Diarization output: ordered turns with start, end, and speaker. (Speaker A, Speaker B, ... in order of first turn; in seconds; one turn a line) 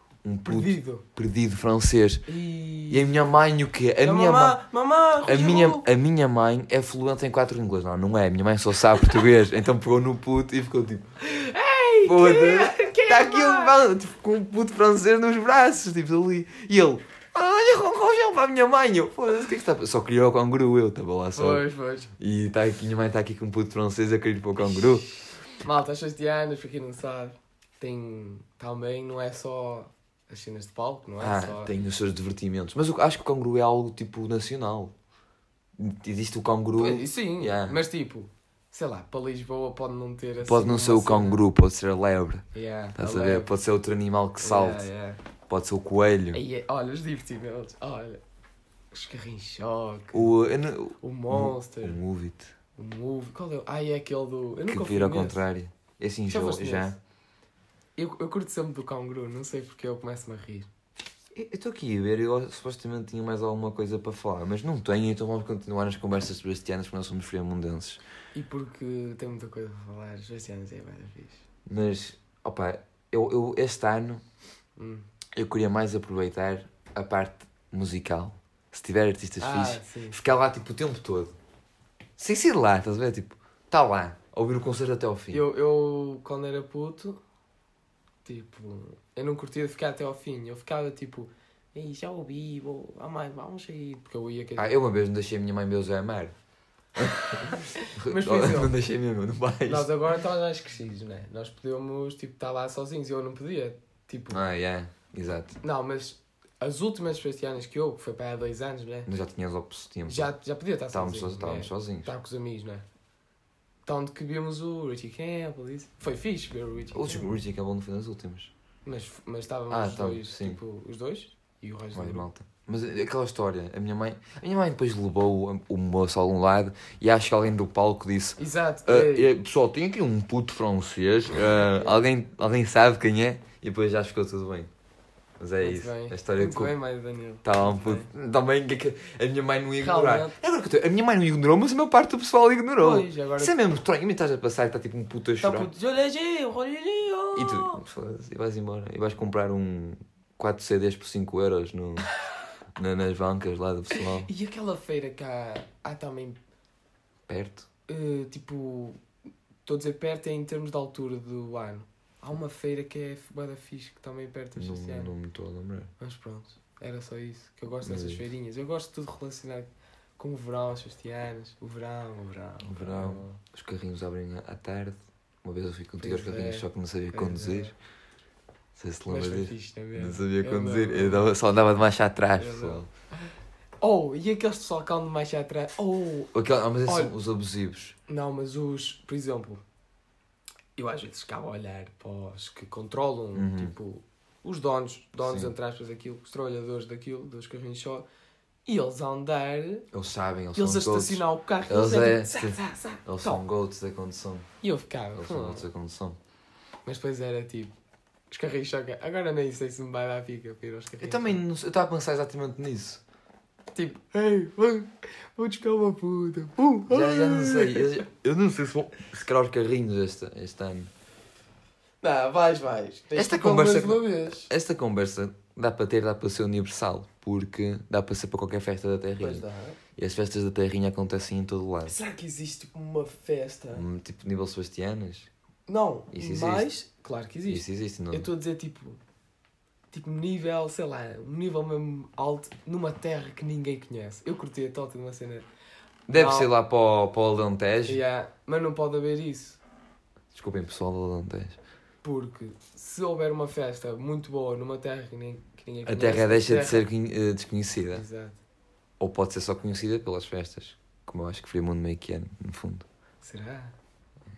Speaker A: 0.2-2.2
Speaker B: 0.5-1.1
Speaker B: 2.3-3.2
Speaker A: 2.9-4.6
Speaker B: 4.0-5.9
Speaker A: 5.2-11.1
Speaker B: 11.2-13.8
Speaker A: 12.0-21.6
Speaker B: 21.4-22.1
Speaker A: 22.2-25.1
Speaker B: 24.6-31.7
Speaker A: 31.2-34.9
Speaker A: 35.8-37.8
Speaker B: 36.7-41.4
Speaker A: 40.4-44.9
Speaker B: 42.5-43.5
Speaker B: 44.4-45.2
Speaker A: 45.5-46.4
Speaker B: 46.3-48.2
Speaker B: 48.9-50.3
Speaker A: 50.1-52.5
Speaker B: 51.0-52.0
Speaker B: 52.8-55.4
Speaker A: 54.7-57.0
Speaker B: 56.3-56.9
Speaker B: 58.0-60.7
Speaker A: 61.3-68.0
Speaker B: 68.3-71.4
Speaker A: 71.7-74.2
Speaker B: 74.8-75.1
Speaker A: 75.4-81.3
Speaker B: 79.4-80.2
Speaker A: 82.2-85.4
Speaker B: 85.3-87.2
Speaker B: 88.2-94.7
Speaker A: 94.6-96.4
Speaker A: 97.0-99.9
Speaker B: 97.3-98.7
Speaker B: 99.7-104.4
Speaker A: 104.3-105.6
Speaker B: 105.6-109.1
Speaker A: 109.1-110.3
Speaker B: 110.1-112.8
Speaker A: 110.9-112.1
Speaker B: 113.9-117.4
Speaker A: 116.9-118.5
Speaker B: 118.8-122.3
Speaker A: 119.7-120.6
Speaker A: 121.9-134.7
Speaker B: 128.4-129.3
Speaker B: 131.6-132.1
Speaker A: 135.4-136.7
Speaker B: 135.6-138.1
Speaker A: 137.4-145.7
Speaker B: 139.8-140.4
Speaker B: 142.8-143.6
Speaker B: 145.4-147.8
Speaker A: 147.3-152.1
Speaker A: 152.8-154.3
Speaker B: 153.9-156.4
Speaker A: 157.3-157.7
Speaker B: 157.9-159.0
Speaker B: 159.7-165.1
Speaker A: 164.6-165.9
Speaker B: 166.0-173.4
Speaker A: 167.8-168.3
Speaker A: 172.6-177.7
Speaker B: 176.0-177.7
Speaker A: 178.8-182.9
Speaker B: 179.1-181.3
Speaker B: 182.4-182.8
Speaker B: 183.8-186.3
Speaker A: 186.3-188.0
Speaker B: 186.8-187.1
Speaker B: 188.1-189.6
Speaker B: 190.8-198.1
Speaker A: 193.3-193.7
Speaker A: 195.2-195.5
Speaker B: 198.7-199.9
Speaker A: 199.9-204.5
Speaker B: 200.6-203.4
Speaker B: 204.6-205.7
Speaker A: 205.2-206.2
Speaker B: 206.8-207.8
Speaker B: 208.3-211.4
Speaker A: 211.0-213.0
Speaker B: 213.8-218.1
Speaker A: 216.9-220.9
Speaker B: 222.0-224.5
Speaker A: 223.1-229.4
Speaker B: 229.2-229.8
Speaker A: 230.0-231.9
Speaker B: 231.9-233.9
Speaker A: 233.7-235.3
Speaker B: 235.7-239.0
Speaker A: 236.1-236.7
Speaker A: 237.5-238.3
Speaker B: 239.9-245.5
Speaker A: 246.1-248.0
Speaker B: 246.1-246.5
Speaker B: 247.9-249.6
Speaker A: 250.3-251.6
Speaker B: 252.0-256.9
Speaker A: 255.9-258.0
Speaker B: 257.9-258.4
Speaker A: 259.0-262.9
Speaker B: 263.2-263.8